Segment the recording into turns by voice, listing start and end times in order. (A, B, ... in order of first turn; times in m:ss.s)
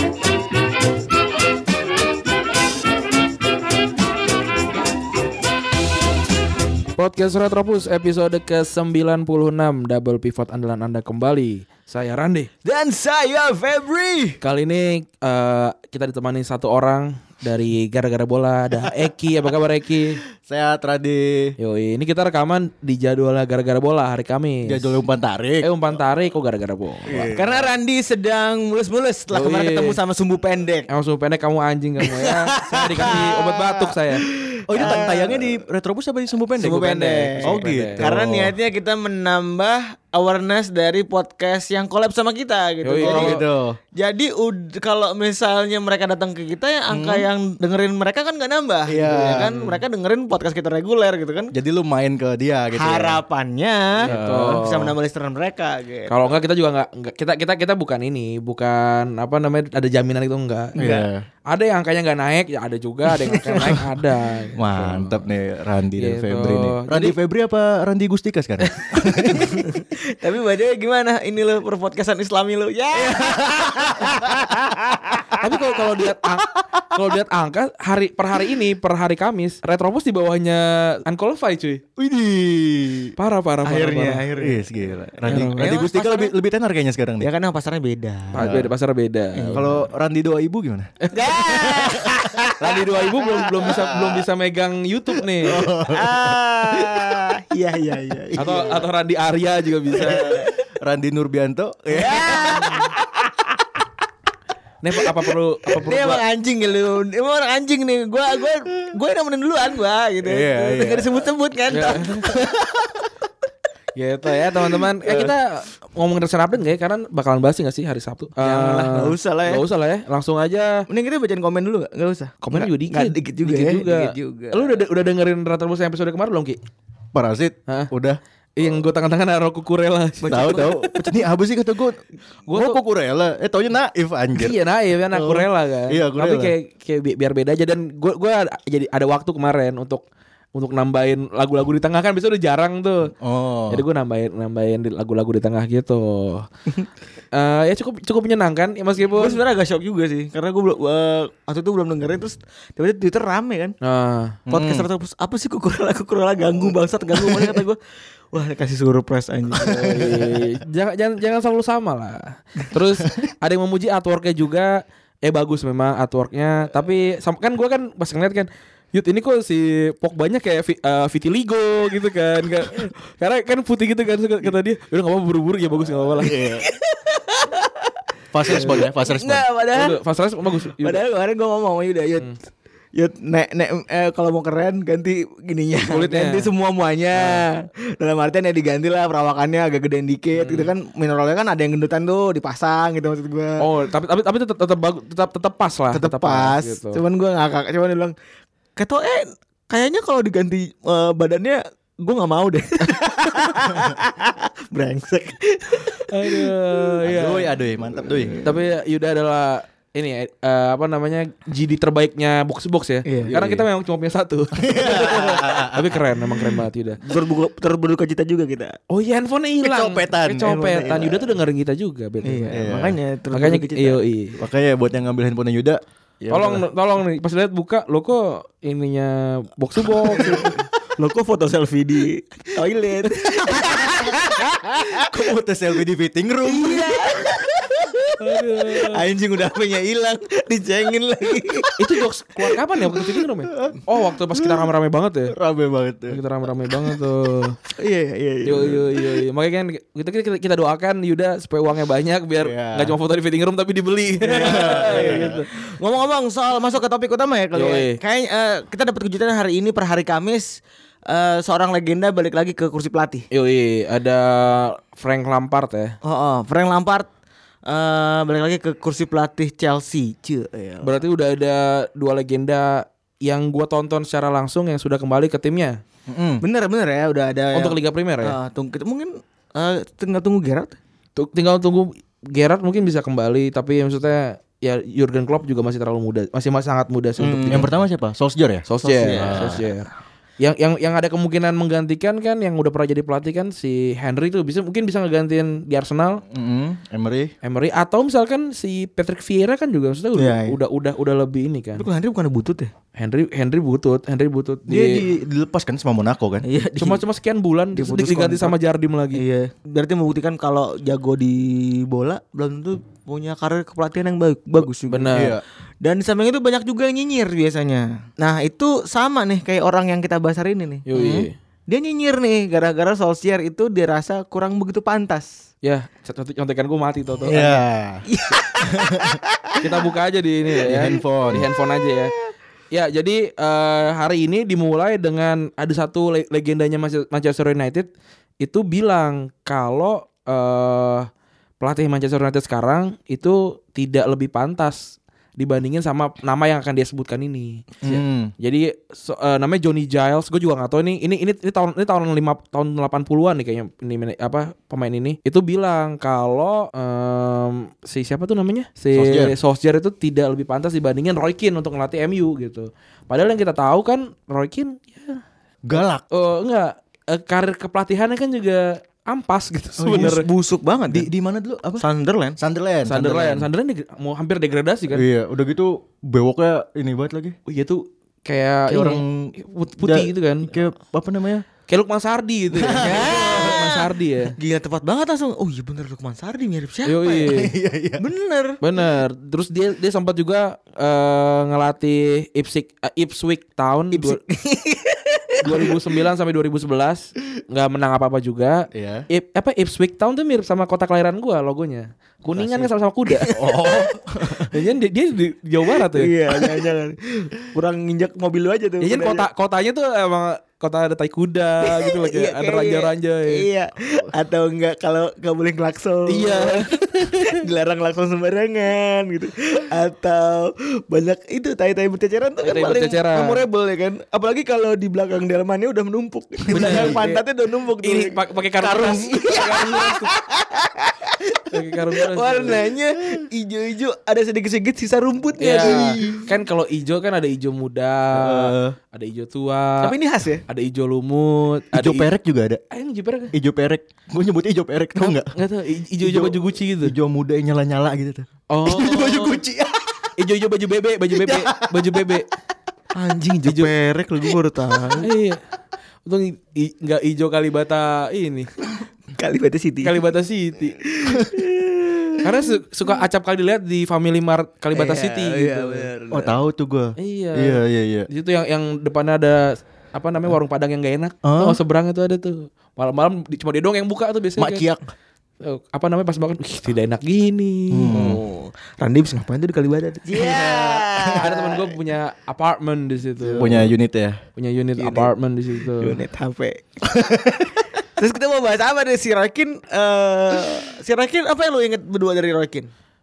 0:07.0-0:12.5 A
0:12.6-0:14.4 B
0:14.4-0:20.2 A
0:20.4-0:21.5 C
0:21.6-0:25.0 A
0:24.6-0:25.7 C
0:25.6-0:27.3 A
0:27.0-0:27.7 C
0:27.3-0:30.9 B
0:29.3-0:30.0 A
0:30.9-0:34.2 A
0:32.7-0:33.9 C
0:34.4-0:35.5 B
0:34.7-0:36.8 C
0:36.6-0:38.1 A
0:36.6-0:43.4 B
0:37.4-0:38.6 C
0:42.8-0:43.4 A
0:43.0-0:43.8 C
0:43.9-0:51.5 B
0:46.9-0:47.3 C
0:48.9-0:49.5 C
0:49.1-0:49.8 A
0:51.5-0:53.2 C
0:52.7-0:56.2 B
0:54.0-0:54.9 A
0:54.0-0:54.6 C
0:56.1-1:00.8 A
1:00.8-1:01.1 B
1:00.8-1:01.2 C
1:01.5-1:05.2 A
1:03.3-1:03.8 B
1:04.6-1:09.7 C
1:06.0-1:07.1 A
1:08.7-1:15.7 B
1:13.0-1:14.4 C
1:15.4-1:21.8 A
1:22.0-1:23.1 C
1:23.2-1:24.2 A
1:23.6-1:26.3 B
1:24.4-1:27.3 C
1:25.3-1:25.9 A
1:27.2-1:28.5 B
1:28.3-1:29.6 A
1:28.4-1:28.7 C
1:29.3-1:29.8 B
1:29.5-1:32.4 C
1:31.0-1:31.7 A
1:31.1-1:34.2 B
1:32.6-1:35.6 A
1:35.4-1:36.9 C
1:35.6-1:38.8 B
1:38.4-1:40.4 A
1:38.4-1:38.7 C
1:39.9-1:42.6 C
1:40.0-1:40.6 B
1:41.9-1:43.6 B
1:42.2-1:42.7 A
1:44.8-1:46.2 A
1:45.0-1:53.0 B
1:50.2-1:51.3 C
1:51.7-1:52.2 A
1:54.0-2:00.8 A
1:58.4-1:59.6 B
2:00.9-2:04.8 B
2:02.4-2:06.6 A
2:07.1-2:08.2 C
2:08.6-2:10.9 A
2:10.2-2:11.2 B
2:10.3-2:14.6 C
2:12.5-2:12.8 A
2:14.4-2:23.1 A
2:15.1-2:16.5 C
2:23.2-2:23.8 C
2:23.7-2:26.5 A
2:27.3-2:29.4 A
2:29.0-2:33.7 B
2:33.8-2:34.4 A
2:34.5-2:34.9 C
2:34.5-2:37.8 B
2:38.3-2:40.1 B
2:39.6-2:56.4 A
2:39.6-2:40.1 C
2:56.2-3:00.0 B
2:58.3-2:59.4 C
2:58.5-2:58.8 A
2:59.7-3:01.0 A
3:00.6-3:02.3 B
3:02.9-3:13.6 B
3:05.9-3:06.5 A
3:07.2-3:07.4 A
3:10.4-3:10.7 A
3:13.6-3:17.0 A
3:15.9-3:18.1 B
3:18.8-3:26.8 B
3:26.1-3:27.5 A
3:27.0-3:28.3 C
3:27.9-3:28.6 B
3:28.4-3:37.0 A
3:33.0-3:33.3 B
3:33.2-3:33.6 C
3:34.6-3:36.2 C
3:34.8-3:35.4 B
3:37.0-3:38.8 B
3:38.9-3:42.6 A
3:39.6-3:40.5 C
3:40.4-3:41.3 B
3:42.2-3:44.0 B
3:42.5-3:43.0 C
3:43.3-3:44.4 A
3:44.4-3:46.6 C
3:46.3-3:50.5 A
3:50.1-3:55.2 B
3:50.2-3:50.5 C
3:53.7-3:54.2 C
3:54.9-3:57.3 C
3:56.4-4:01.7 B
3:58.2-3:59.0 A
4:01.8-4:05.3 A
4:02.8-4:04.7 C
4:05.3-4:06.2 C
4:06.1-4:07.6 A
4:07.7-4:09.1 B
4:08.4-4:15.5 A
4:12.4-4:13.0 C
4:14.2-4:23.3 B
4:14.4-4:15.3 C
4:17.5-4:18.0 A
4:23.3-4:26.0 A
4:26.0-4:27.1 B
4:27.6-4:31.0 B
4:30.8-4:35.8 A
4:36.1-4:36.4 C
4:36.4-4:40.8 B
4:37.5-4:38.4 A
4:41.2-4:47.7 A
4:47.2-4:47.7 B
4:47.5-4:49.6 C
4:48.7-4:56.2 A
4:48.9-4:49.6 B
4:56.3-4:57.3 C
4:57.4-5:01.8 A
5:00.1-5:00.6 B
5:01.8-5:02.7 B
5:03.0-5:05.0 A
5:04.7-5:06.4 C
5:06.4-5:07.0 B
5:06.8-5:09.2 A
5:07.7-5:08.6 B
5:09.1-5:15.2 B
5:14.9-5:15.4 A
5:15.1-5:15.4 C
5:15.8-5:20.8 B
5:20.9-5:21.3 A
5:20.9-5:21.3 C
5:21.7-5:25.3 B
5:25.6-5:27.6 A
5:27.3-5:28.0 C
5:28.0-5:29.7 B
5:28.6-5:29.2 C
5:29.6-5:32.1 A
5:30.6-5:31.4 C
5:32.7-5:37.9 A
5:38.4-5:41.1 A
5:41.6-6:05.2 A
5:47.8-5:48.3 C
5:58.9-5:59.3 C
6:05.6-6:06.0 C
6:05.7-6:10.2 A
6:09.8-6:10.2 C
6:09.9-6:11.1 B
6:10.9-6:11.8 C
6:11.8-6:12.4 B
6:12.4-6:13.5 C
6:12.8-6:15.0 A
6:14.9-6:17.3 C
6:17.5-6:20.5 A
6:18.7-6:21.4 C
6:21.7-6:24.4 A
6:22.5-6:23.7 C
6:22.8-6:27.3 B
6:26.8-6:27.5 A
6:27.3-6:28.0 C
6:28.0-6:28.6 B
6:28.6-6:34.2 A
6:33.9-6:35.8 B
6:35.4-6:43.3 A
6:38.7-6:39.0 C
6:42.3-6:42.7 C
6:43.1-6:43.9 B
6:43.3-6:44.5 C
6:44.5-6:46.1 A
6:45.9-6:49.2 B
6:48.8-6:53.4 A
6:51.6-7:16.3 B
6:56.1-6:57.4 A
7:02.4-7:03.4 A
7:06.5-7:07.0 C
7:06.5-7:07.2 A
7:07.8-7:10.1 A
7:11.5-7:12.6 A
7:15.4-7:19.9 A
7:15.6-7:16.3 C
7:18.1-7:18.8 C
7:19.8-7:20.4 B
7:20.5-7:22.1 A
7:21.7-7:22.6 C
7:22.7-7:23.3 A
7:23.3-7:25.3 C
7:25.0-7:27.0 A
7:26.0-7:30.1 C
7:28.5-7:29.4 A
7:30.2-7:32.3 A
7:31.3-7:31.7 C
7:32.9-7:35.1 B
7:35.0-7:35.4 A
7:36.0-7:38.5 A
7:39.2-7:40.0 B
7:39.8-7:40.8 A
7:40.8-7:42.3 B
7:42.2-7:45.9 A
7:44.7-7:46.3 B
7:46.1-7:48.1 C
7:47.0-7:54.6 A
7:51.2-7:51.6 C
7:54.4-7:54.8 C
7:55.4-7:58.1 A
7:57.7-7:58.2 C
7:57.9-8:01.8 B
8:00.2-8:01.3 C
8:01.2-8:03.7 A
8:03.2-8:03.5 B
8:03.4-8:04.2 C
8:04.4-8:06.0 A
8:04.8-8:12.7 B